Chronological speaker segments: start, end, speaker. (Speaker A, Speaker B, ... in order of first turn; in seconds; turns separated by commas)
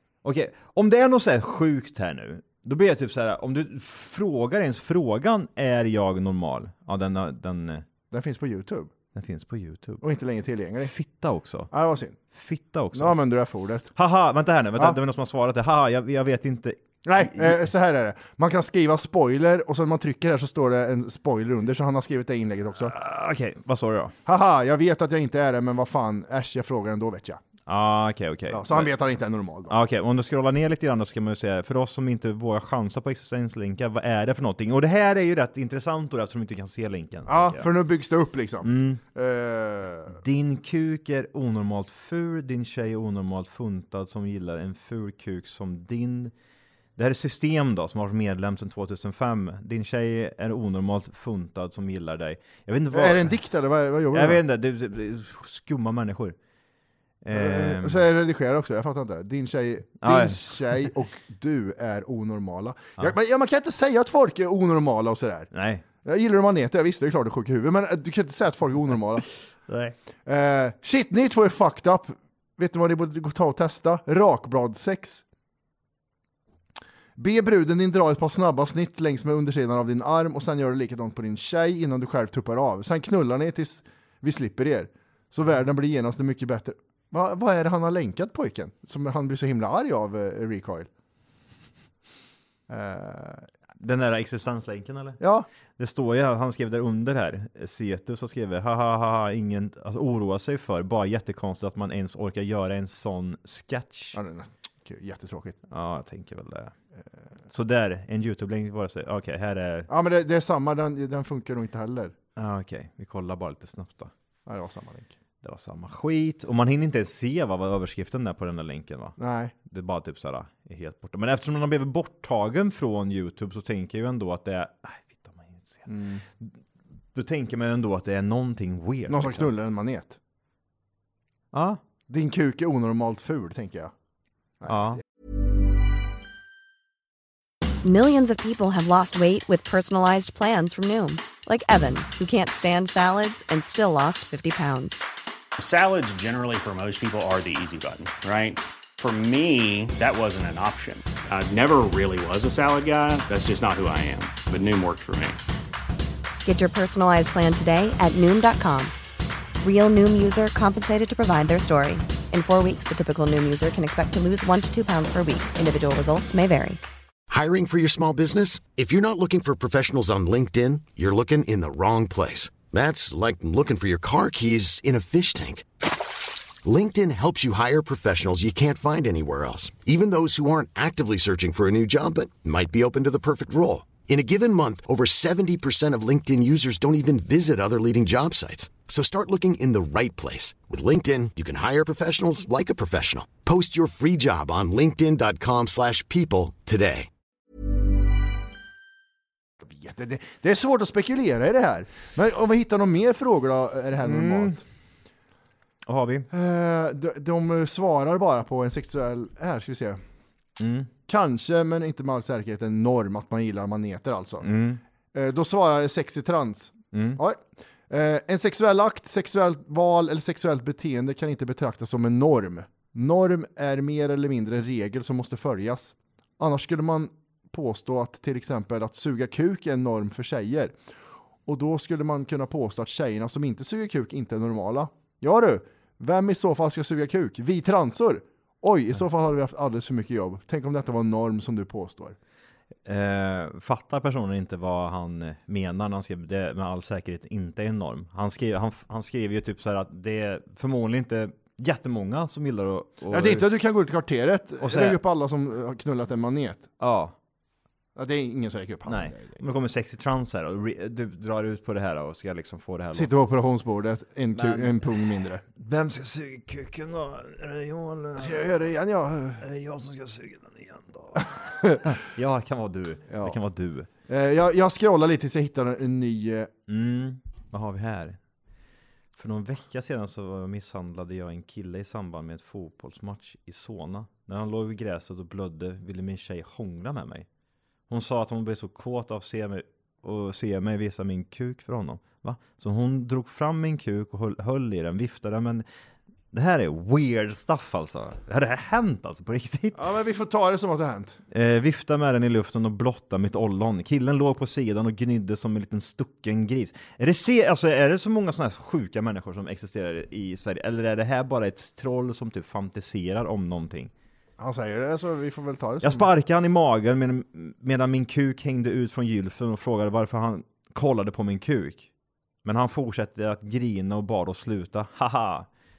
Speaker A: 0.2-7.9, Speaker B: 8.1-8.9, Speaker A: 9.2-10.0, Speaker B: 10.0-10.9, Speaker A: 10.8-11.7, Speaker B: 11.7-12.2, Speaker A: 12.3-13.2, Speaker B: 12.9-13.9, Speaker A: 13.9-17.7, Speaker B: 17.1-22.9, Speaker A: 22.8-24.1, Speaker B: 24.3-27.4, Speaker A: 27.7-28.9, Speaker B: 28.5-29.8, Speaker A: 29.7-37.7, Speaker B: 37.3-40.2, Speaker A: 38.6-39.0, Speaker A: 40.1-46.3, Speaker A: 47.0-53.4, Speaker B: 52.9-54.4, Speaker A: 54.1-56.4, Speaker A: 57.2-58.0, Speaker B: 57.3-65.5, Speaker A: 60.0-60.6, Speaker A: 65.5-65.8, Speaker B: 66.0-69.2, Speaker A: 69.7-70.0, Speaker B: 70.3-75.2, Speaker B: 77.2-90.9, Speaker B: 92.7-93.5, Speaker A: 93.8-95.2, Speaker B: 95.2-95.5, Speaker A: 95.8-104.2, Speaker B: 104.1-105.6, Speaker A: 105.7-106.7, Speaker A: 107.5-109.9, Speaker B: 109.9-112.1, Speaker A: 112.4-114.1, Speaker B: 114.5-115.1, Speaker A: 115.4-125.9, Speaker B: 119.2-119.5, Speaker B: 125.9-126.2, Speaker A: 127.1-129.5, Speaker B: 129.1-130.2, Speaker A: 131.5-131.8, Speaker B: 132.1-133.9, Speaker B: 134.6-135.0, Speaker A: 134.7-135.0, Speaker C: 137.8-145.1, Speaker D: 145.6-155.4, Speaker C: 156.4-158.9, Speaker C: 159.6-166.8, Speaker E: 167.3-175.7, Speaker E: 176.6-197.1, Speaker B: 199.6-204.6, Speaker A: 204.0-204.6, Speaker A: 205.9-206.3, Speaker B: 206.3-210.0, Speaker A: 210.6-210.9, Speaker B: 211.1-214.5, Speaker A: 214.4-214.8, Speaker B: 215.1-230.8, Speaker A: 216.9-217.2, Speaker B: 231.5-242.2, Speaker A: 242.9-253.5, Speaker B: 253.1-256.7, Speaker A: 254.6-255.0, Speaker A: 256.8-257.1, Speaker B: 258.0-259.4, Speaker A: 258.9-263.1, Speaker B: 262.9-265.4, Speaker A: 264.3-264.9, Speaker A: 265.5-268.5, Speaker B: 268.2-269.4, Speaker A: 269.4-273.9, Speaker B: 273.1-273.4, Speaker B: 274.1-276.5, Speaker A: 276.7-278.2, Speaker A: 279.2-287.3, Speaker A: 287.9-295.6, Speaker A: 296.3-299.8, Speaker B: 299.8-301.2, Speaker A: 301.3-313.9, Speaker B: 314.4-316.1, Speaker A: 315.8-321.9, Speaker A: 322.4-325.5